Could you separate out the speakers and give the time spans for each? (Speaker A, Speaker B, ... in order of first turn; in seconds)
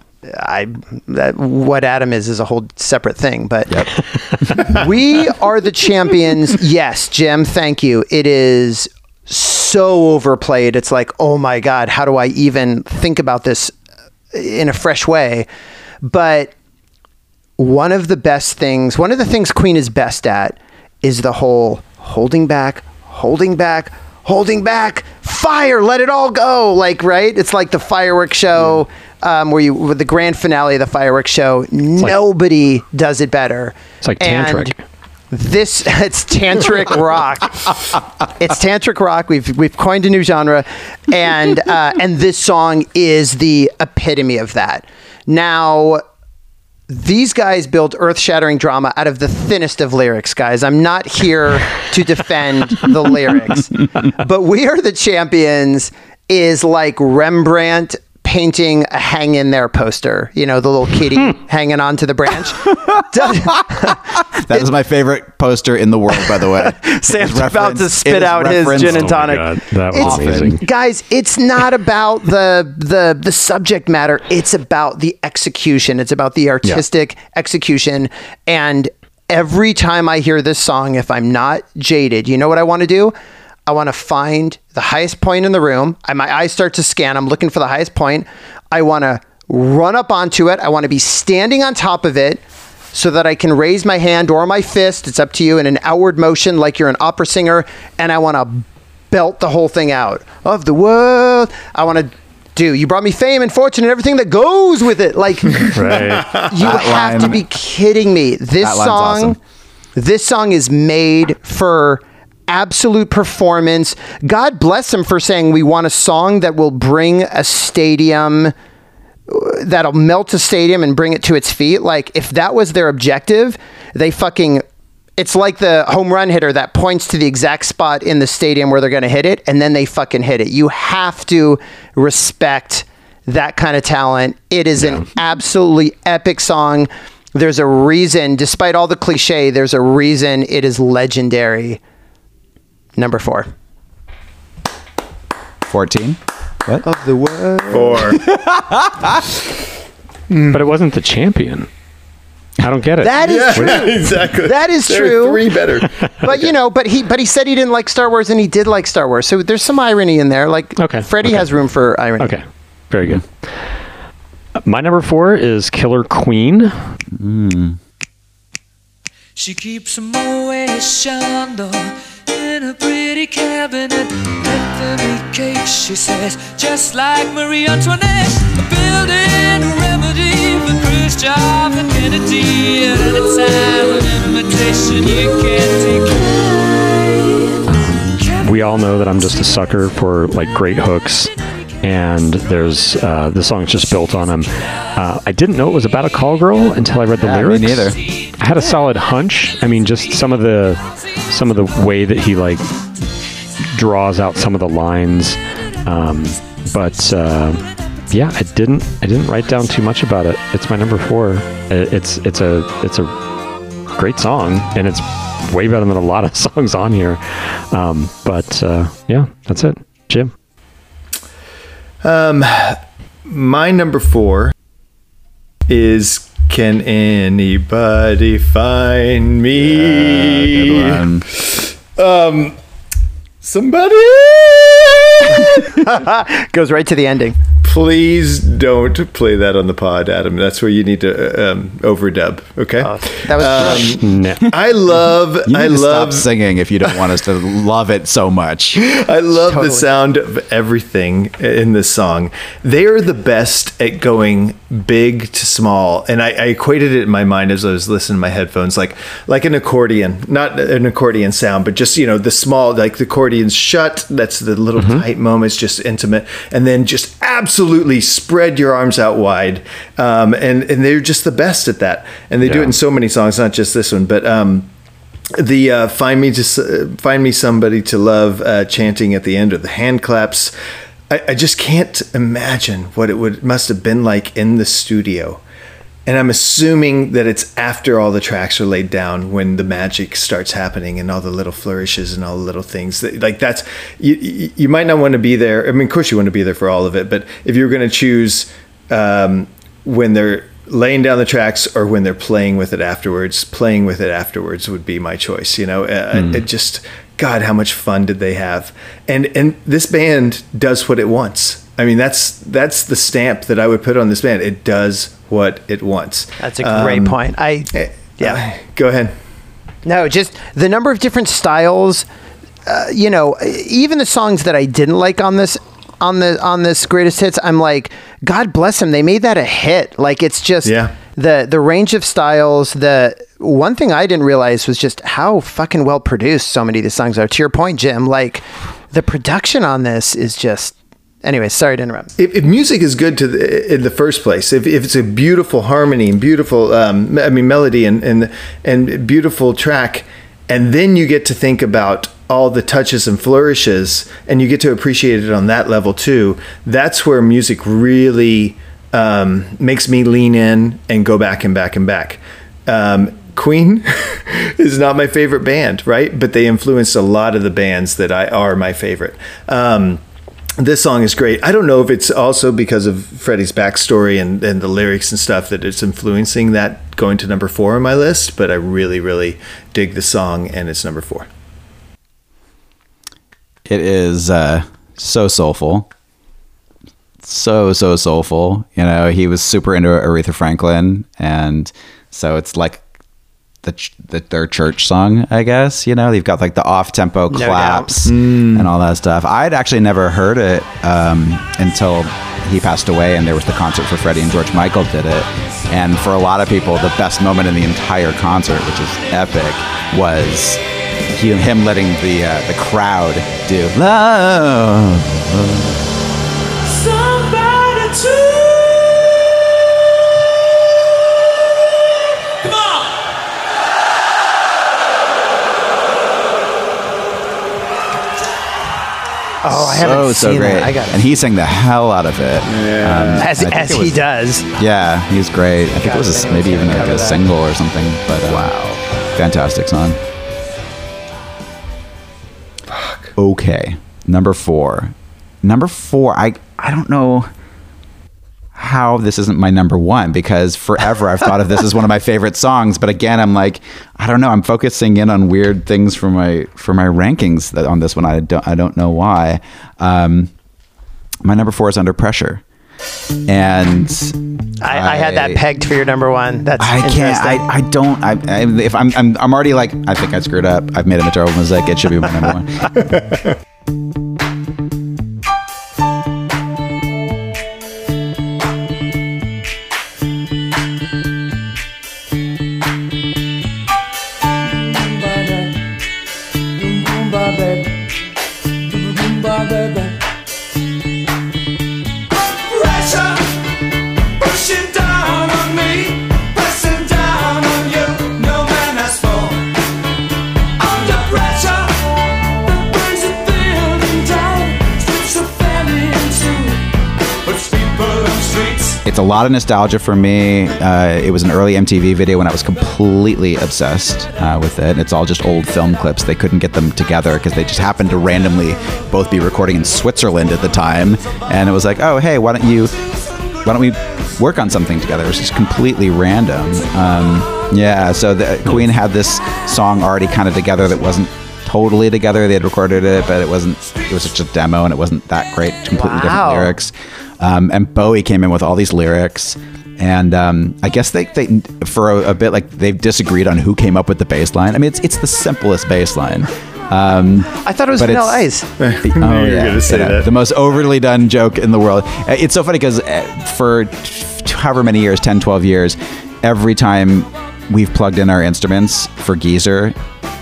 Speaker A: 0.2-3.8, 4.6-13.7, 14.3-15.4, 16.0-16.5, 17.6-34.7, 35.3-37.8, 38.4-46.0, 46.9-64.6, 66.3-83.1, 83.7-92.4, 92.9-109.4, 110.0-118.5, 119.3-124.6, 125.2-141.8, 143.0-143.5, 146.8-148.2, 153.0-155.6, 156.2-162.4, 235.6-237.3, 242.8-244.0, 249.4-249.9, 316.4-318.4, 319.8-322.1, 322.7-342.1, 397.3-397.9, 429.4-431.0, 433.2-434.4, 435.8-437.2, 464.6-467.4, 535.7-536.5, 547.4-548.5
Speaker B: 3.7-4.7, 62.7-69.4, 69.9-70.6, 106.5-107.4, 108.6-109.4, 145.7-146.8, 148.1-149.3, 167.1-167.8, 197.2-198.0, 229.5-231.3, 245.4-248.8, 383.6-385.9, 387.2-392.8, 393.6-415.8, 429.5-434.0, 434.5-440.0, 443.1-447.3, 448.5-460.3, 461.2-462.4, 463.2-465.4, 466.6-472.7, 508.8-522.8, 523.4-548.2, 548.8-559.8
Speaker C: 34.0-34.7, 68.7-70.6, 105.7-106.3, 150.5-151.7, 152.6-154.1, 160.8-161.5, 162.2-163.4, 164.6-166.8, 187.7-191.3, 191.8-202.7, 203.7-213.1, 213.9-220.3, 243.6-244.5, 264.8-265.0, 272.4-272.7
Speaker D: 105.8-106.5, 147.7-148.2, 150.3-150.6, 153.2-156.5, 222.0-224.5, 225.7-232.6, 233.4-235.7, 237.6-246.3, 248.8-274.7, 275.4-280.5, 281.1-285.4, 286.1-317.2, 317.7-319.1, 330.6-330.9, 342.2-370.0, 370.6-381.3, 398.0-398.7, 432.5-433.3, 438.4-438.7, 442.7-443.1, 472.8-473.3, 548.6-550.1
Speaker E: 169.3-187.5, 416.6-418.8, 484.5-485.7, 486.5-487.8, 488.6-490.0, 492.1-499.6, 500.6-506.7, 507.2-508.8